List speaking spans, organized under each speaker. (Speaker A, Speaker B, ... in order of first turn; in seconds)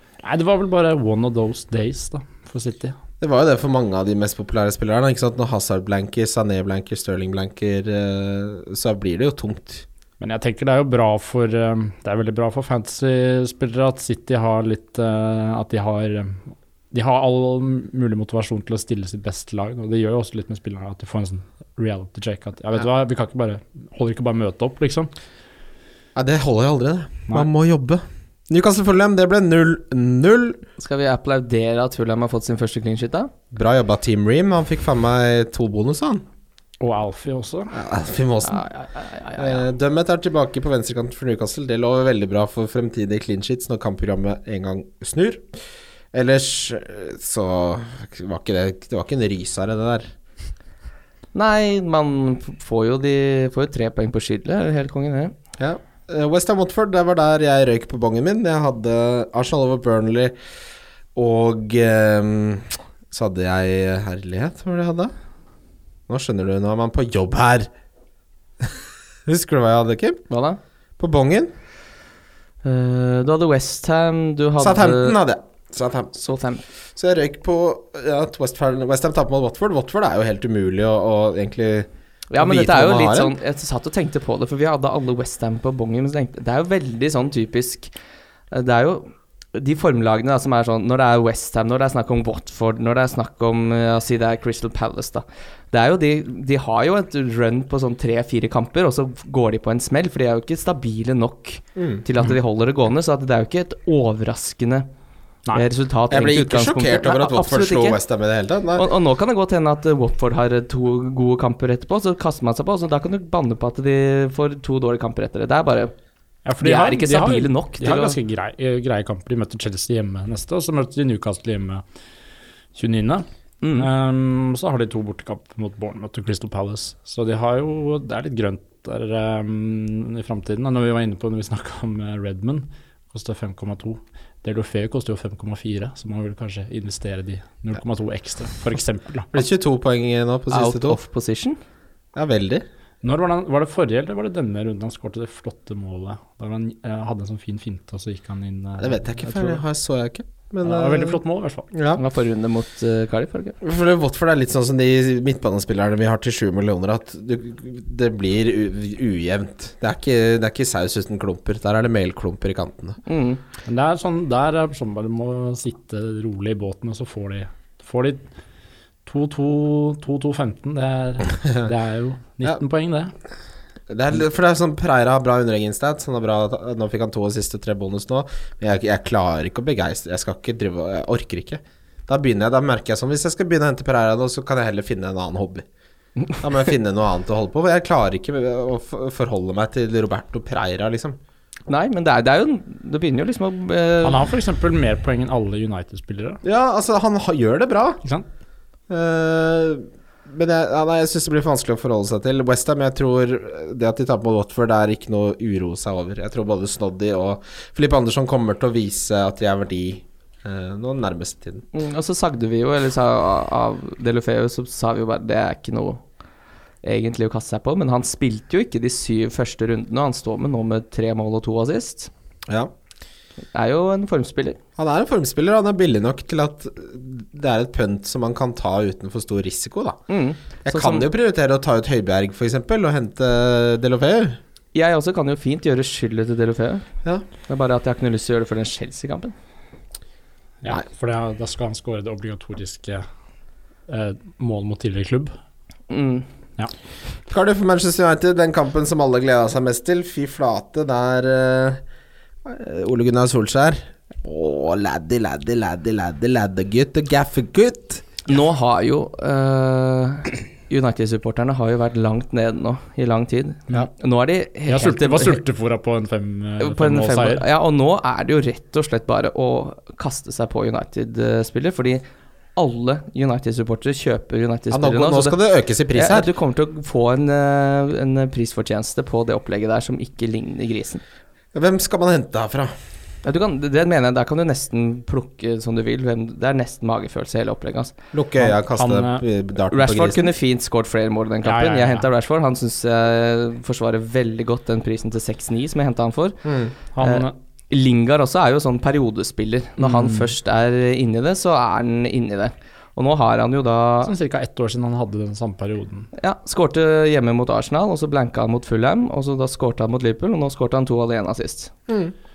Speaker A: 0.2-3.0, 10.2-25.1, 36.8-37.7, 116.5-121.8, 122.7-123.2, 123.8-139.4, 143.0-149.6, 150.6-151.7, 163.7-168.2, 169.0-173.1, 194.0-196.4, 240.6-243.0, 243.9-245.3, 264.7-267.4, 288.4-289.2, 291.4-292.1, 296.9-297.3, 299.8-300.3, 304.0-306.1
Speaker B: 3.2-9.8, 26.1-30.6, 33.5-36.2, 37.7-38.6, 39.4-45.5, 46.1-50.1, 55.6-60.3, 61.1-65.1, 66.1-67.7, 68.6-70.2, 71.0-71.5, 74.6-76.1, 77.0-83.3, 101.8-102.0, 106.1-108.9, 139.3-141.0, 142.1-142.6, 148.8-151.2, 151.7-152.0, 153.6-163.0, 173.9-185.6, 186.4-191.2, 196.4-198.0, 198.9-211.6, 224.8-230.0, 230.6-234.4, 247.3-251.8, 252.4-258.0, 274.7-276.3, 281.5-282.7, 288.1-290.3, 296.4-296.7, 311.9-312.1
Speaker C: 30.8-33.3, 38.4-39.6, 51.3-55.3, 70.3-70.6, 72.6-75.2, 76.1-76.6, 82.3-87.9, 88.5-104.9, 105.5-108.0, 108.7-115.9, 116.6-118.2, 123.6-123.9, 140.5-141.6, 152.0-153.6, 163.1-163.4, 191.7-194.2, 211.7-216.0, 216.8-222.1, 223.5-224.6, 230.1-231.1, 234.7-236.8, 237.5-239.3, 245.9-246.3, 258.3-265.4, 266.6-272.0, 272.6-275.4, 275.9-281.0, 283.2-287.9, 289.7-296.4, 297.0-304.1, 306.2-311.7